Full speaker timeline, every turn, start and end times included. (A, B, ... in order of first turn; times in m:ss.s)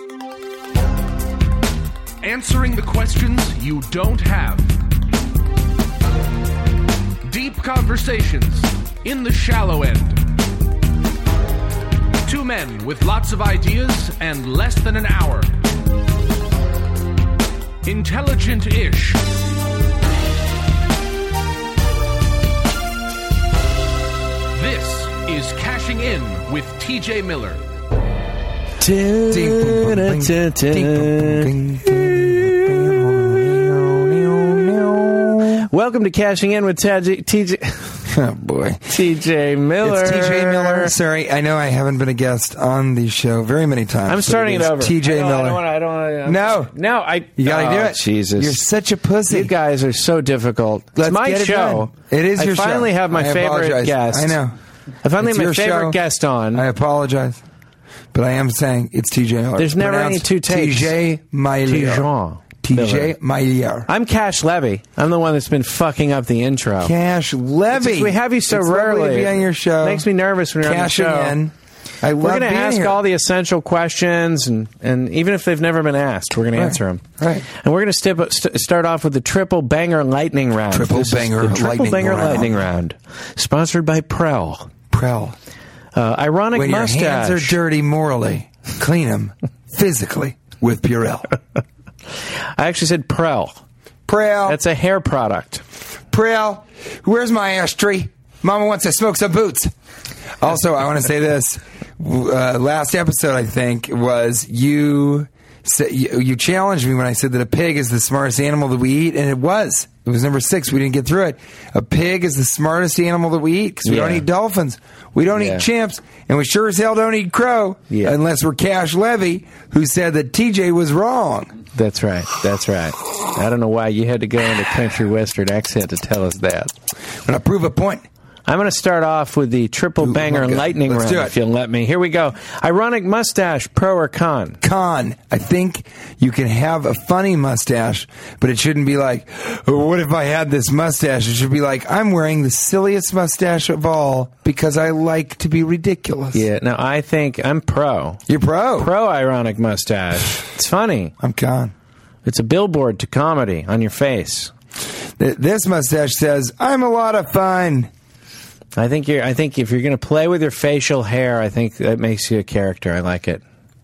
0:02.2-0:04.7 A
0:07.2-0:10.2 A
0:12.2-0:15.6 A
0:17.8-0:19.2 A
0:24.5-0:27.6 A
0:28.8-0:33.1 B
0:29.3-0:35.7 C
0:34.9-0:38.0 B
0:38.0-0:38.9 C
0:38.9-0:40.9 B
0:39.8-0:45.6 C
0:44.1-0:48.6 B
0:46.2-0:46.7 C
0:47.4-0:49.5 C
0:49.3-0:54.4 B
0:51.0-0:54.5 C
0:55.0-0:56.6 B
0:55.2-0:56.0 C
0:56.5-0:57.4 C
0:58.1-1:02.0 C
0:59.6-1:00.9 B
1:01.6-1:03.1 B
1:02.6-1:03.9 C
1:03.9-1:06.9 B
1:06.8-1:10.0 C
1:07.7-1:11.4 B
1:10.6-1:13.0 C
1:12.2-1:24.7 B
1:16.5-1:17.4 C
1:20.7-1:22.5 C
1:24.9-1:25.4 C
1:25.9-1:27.6 B
1:26.5-1:31.3 C
1:32.6-1:33.6 B
1:34.1-1:34.6 C
1:34.4-1:35.6 B
1:36.1-1:39.7 C
1:40.4-2:01.5 C
1:53.8-1:54.2 B
1:55.3-1:55.6 B
1:57.9-1:58.2 B
2:01.7-2:06.7 B
2:07.2-2:08.0 C
2:08.4-2:14.6 B
2:10.0-2:11.3 C
2:14.6-2:26.4 C
2:26.3-2:28.2 B
2:28.3-2:28.9 C
2:28.8-2:31.1 B
2:31.2-2:31.7 C
2:32.2-2:34.5 B
2:35.2-2:37.9 C
2:38.8-2:43.4 B